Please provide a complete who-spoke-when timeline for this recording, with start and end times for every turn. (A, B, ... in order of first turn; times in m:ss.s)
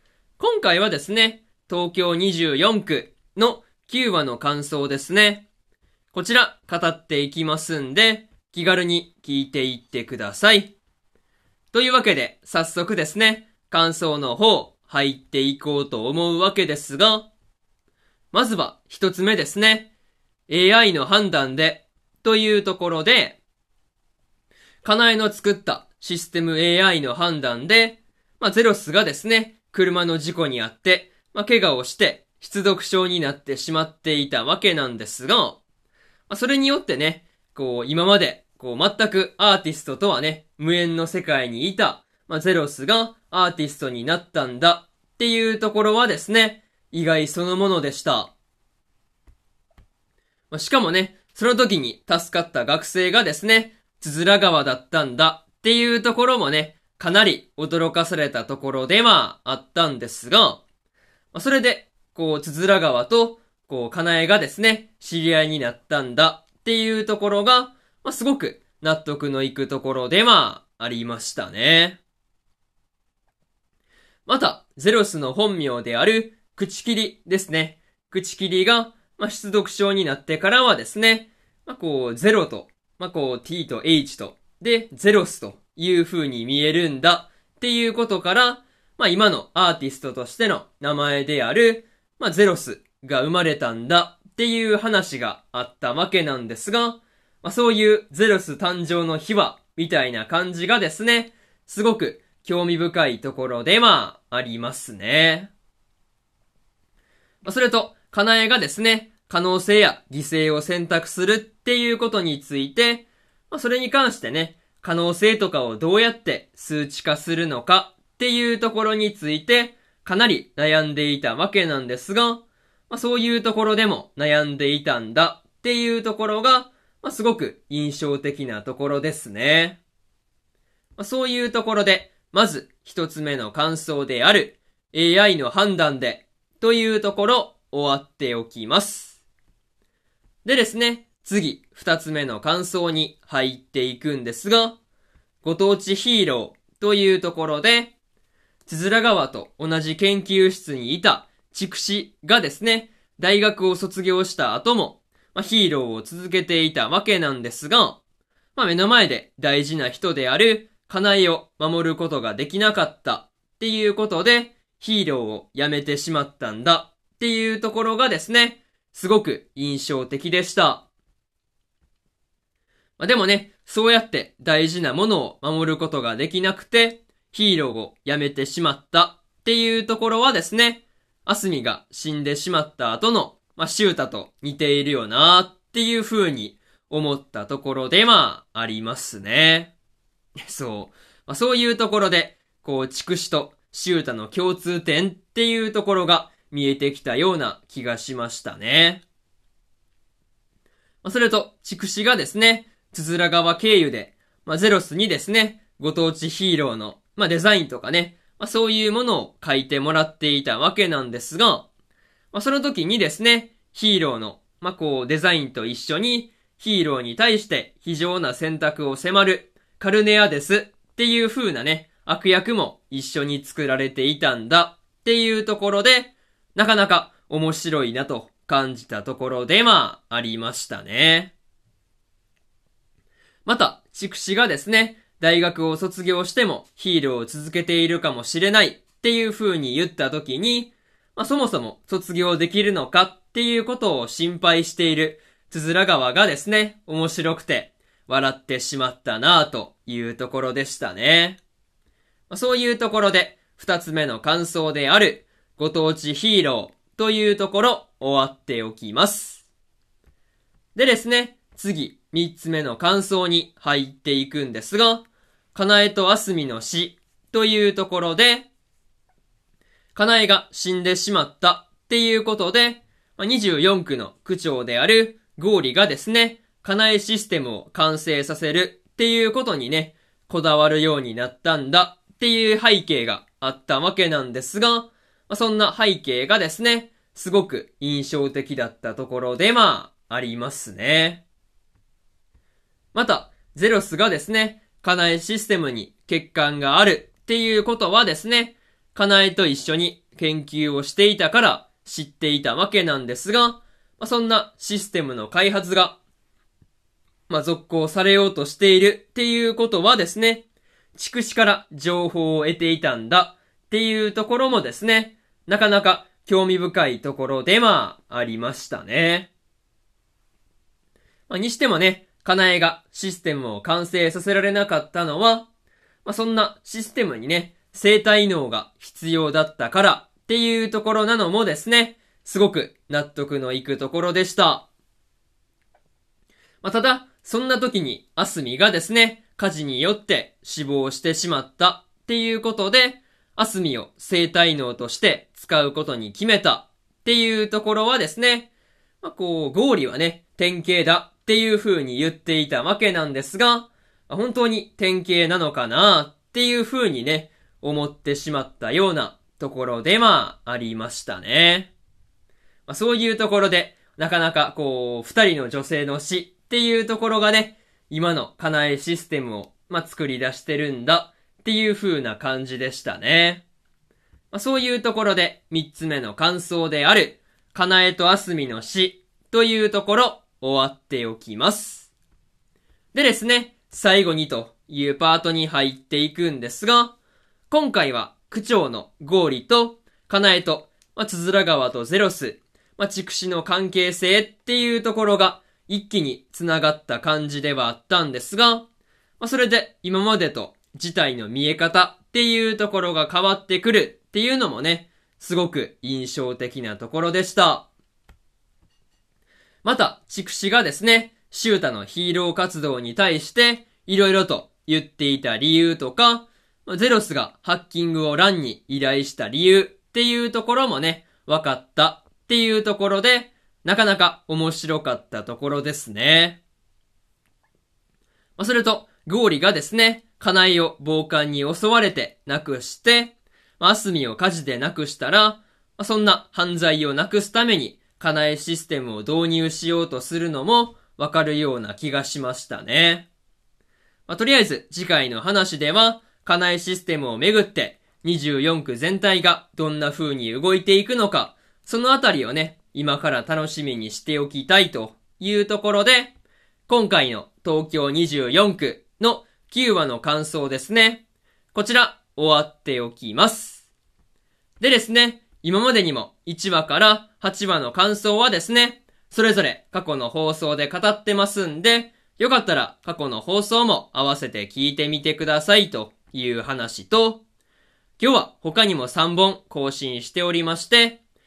0:00.4-0:05.5 A
0:06.1-0:10.7 A
0:11.7-0:17.3 A
0:18.3-0:19.9 A
0:20.5-0:23.4 A
0:24.8-0:35.6 A
0:36.3-0:48.3 A
0:50.5-1:00.6 A
1:01.3-1:12.0 A
1:14.3-1:45.5 A
1:47.4-2:09.8 A
2:11.0-2:19.2 A
2:20.4-2:24.8 A
2:25.4-2:27.9 A
2:28.7-2:38.0 A
2:38.6-2:50.9 A
2:53.0-3:09.7 A
3:10.4-3:19.0 A
3:21.0-3:31.7 A
3:32.3-3:51.3 A
3:53.5-4:11.4 A
4:12.3-4:19.4 A
4:20.8-4:28.5 A
4:30.0-4:51.2 A
4:52.9-5:06.0 A
5:07.3-5:19.3 A
5:21.3-5:25.5 A
5:26.0-5:34.7 A
5:36.6-5:48.5 A
5:49.0-6:01.7 A
6:02.7-6:13.4 A
6:14.3-6:21.9 A
6:22.9-6:27.0 A
6:27.5-6:38.7 A
6:39.2-6:47.7 A
6:49.6-7:06.4 A
7:08.4-7:23.1 A
7:24.1-7:36.2 A
7:36.7-7:41.0 A
7:41.5-7:43.7 A
7:44.6-7:57.2 A
7:58.0-8:01.0 A